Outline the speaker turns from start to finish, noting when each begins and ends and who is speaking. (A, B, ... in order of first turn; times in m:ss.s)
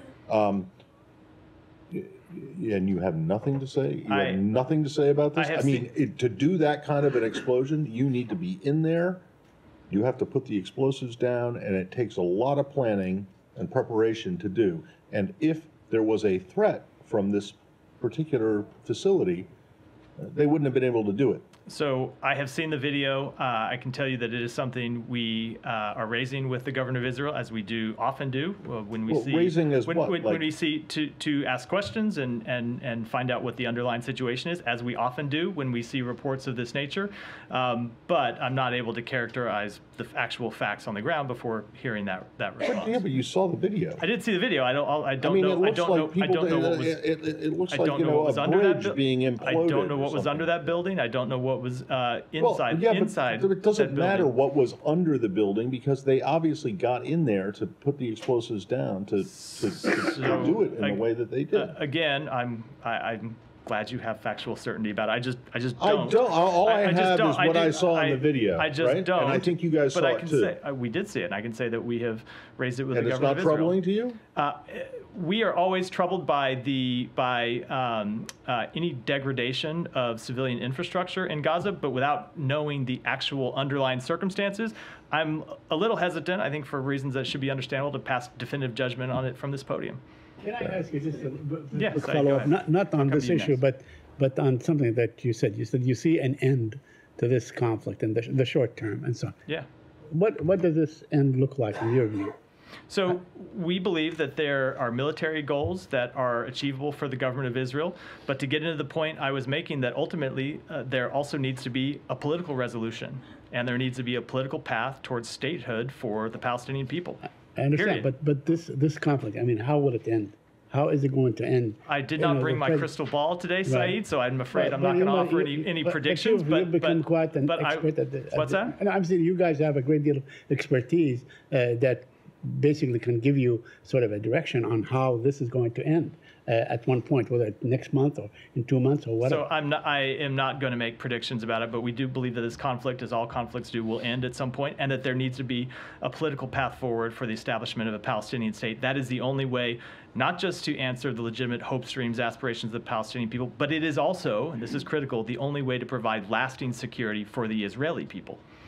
0:00.3-0:00.7 A
0:01.9-0:09.2 A
0:04.1-0:04.4 B
0:05.4-0:05.9 B
0:09.9-0:19.5 A
0:20.2-0:21.4 A
0:21.7-0:43.0 B
0:29.1-0:30.5 A
0:42.6-0:44.0 A
0:44.0-0:47.0 B
0:45.2-0:50.8 A
0:47.7-0:54.3 B
0:52.4-1:01.8 A
0:59.3-1:13.8 B
1:05.8-1:10.5 A
1:12.9-1:14.2 A
1:14.4-1:30.0 B
1:30.4-1:39.4 C
1:31.7-1:33.6 B
1:40.1-1:42.4 C
1:42.9-1:57.2 B
1:57.6-2:02.9 C
1:57.7-1:58.1 B
2:01.9-2:08.8 B
2:03.6-2:04.0 C
2:04.5-2:19.4 C
2:19.2-2:38.4 B